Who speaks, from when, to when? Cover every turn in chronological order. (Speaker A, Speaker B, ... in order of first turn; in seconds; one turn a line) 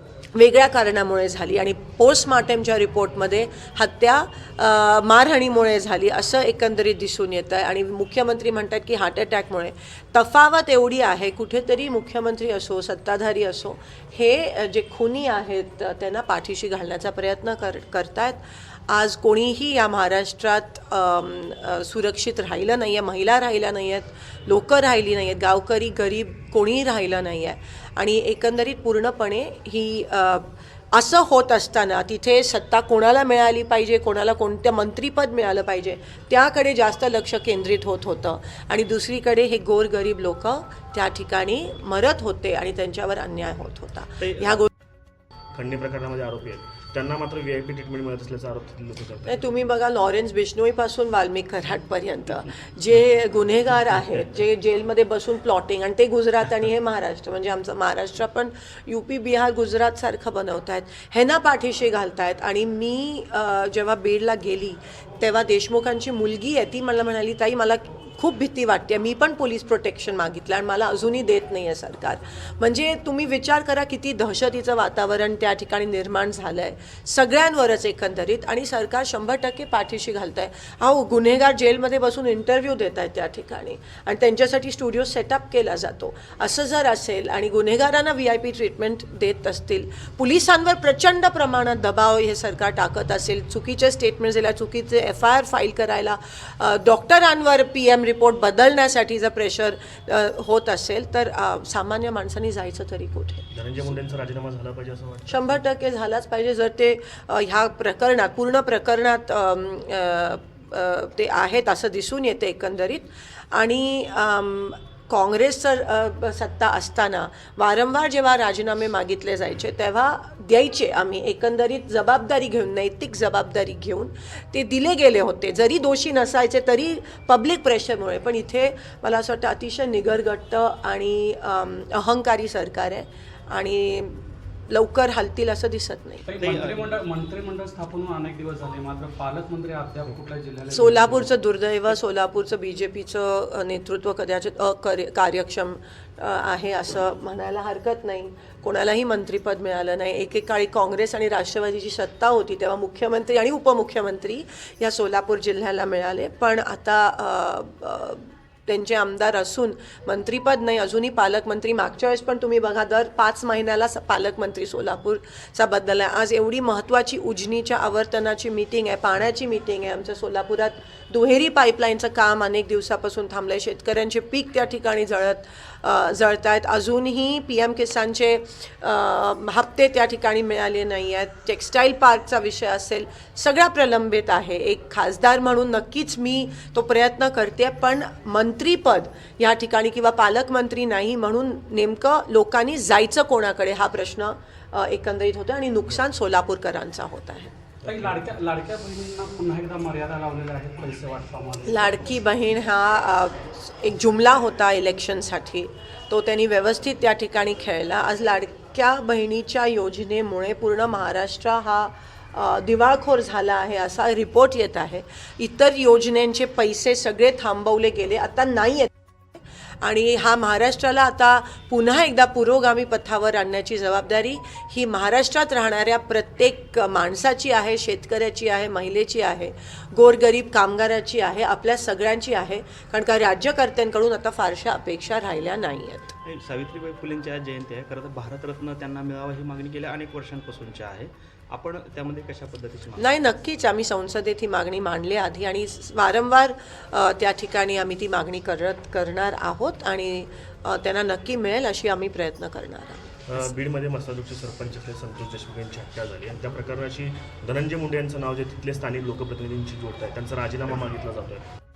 Speaker A: 0.3-44.7
Speaker B: 45.5-49.4
Speaker A: 49.3-103.5
Speaker B: 103.5-105.6
Speaker A: 105.3-136.2
Speaker C: 136.3-141.2
Speaker D: 136.4-137.0
Speaker A: 140.7-197.5
Speaker C: 197.8-201.7
Speaker A: 201.6-218.9
Speaker A: 219.8-236.1
Speaker D: 236.2-243.1
Speaker A: 243.0-253.5
Speaker B: 253.3-261.5